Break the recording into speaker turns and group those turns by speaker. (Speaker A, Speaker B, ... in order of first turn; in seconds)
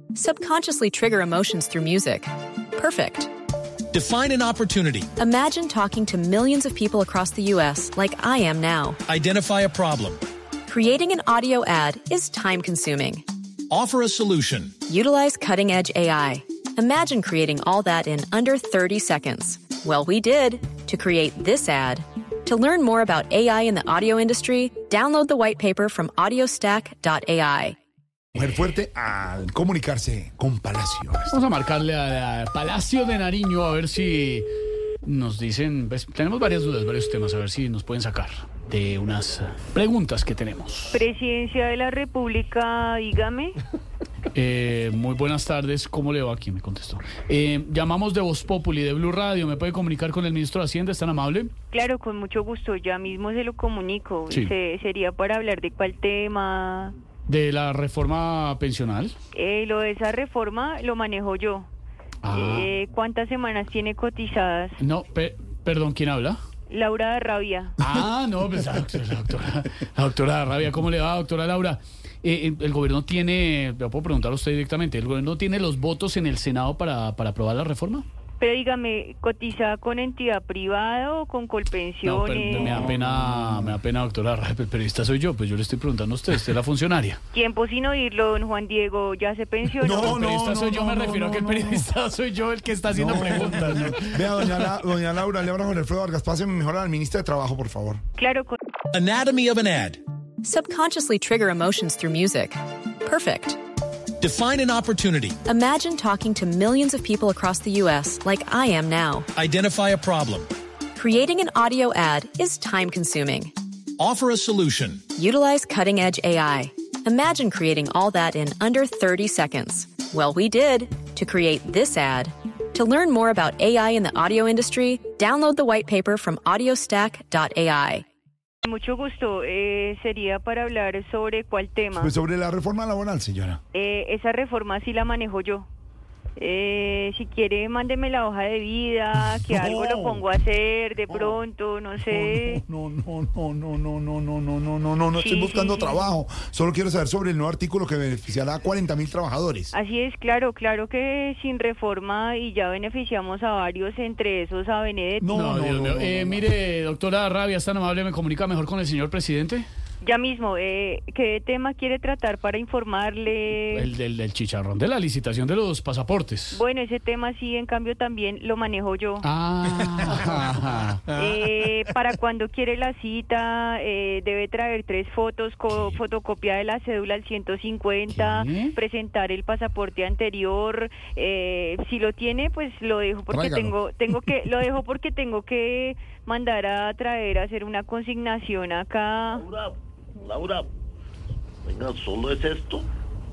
Speaker A: 0.1-3.3, 5.2-9.0, 10.7-13.2, 14.9-27.8, 100.4-103.6, 105.4-109.3, 110.9-113.5, 115.1-128.0
Speaker B: 3.9-5.1, 9.1-10.2, 13.7-14.8, 98.9-100.0, 104.2-105.4, 109.3-110.5, 114.0-115.1
Speaker C: 28.3-31.4, 82.6-83.7, 89.8-91.8, 92.9-98.0, 131.9-133.6, 139.4-140.3, 141.1-141.4, 142.0-149.7, 155.2-156.4, 183.3-183.8
Speaker D: 31.3-34.5, 35.0-41.0, 44.3-51.5, 57.3-59.1, 62.2-62.7, 64.8-66.4, 67.8-78.0, 82.0-87.2, 89.9-94.7, 155.3-159.7, 163.7-166.6, 169.2-171.2, 178.1-178.8
Speaker E: 40.9-43.6, 51.7-57.0, 59.3-61.7, 62.2-64.8, 66.7-67.8, 78.4-82.9, 87.3-90.2, 98.2-98.6, 128.6-132.1, 133.7-135.7, 136.4-142.6, 145.1-146.1, 149.7-155.5, 160.0-163.9, 166.5-169.3, 171.1-189.4
Speaker F: 189.3-190.7, 191.6-192.9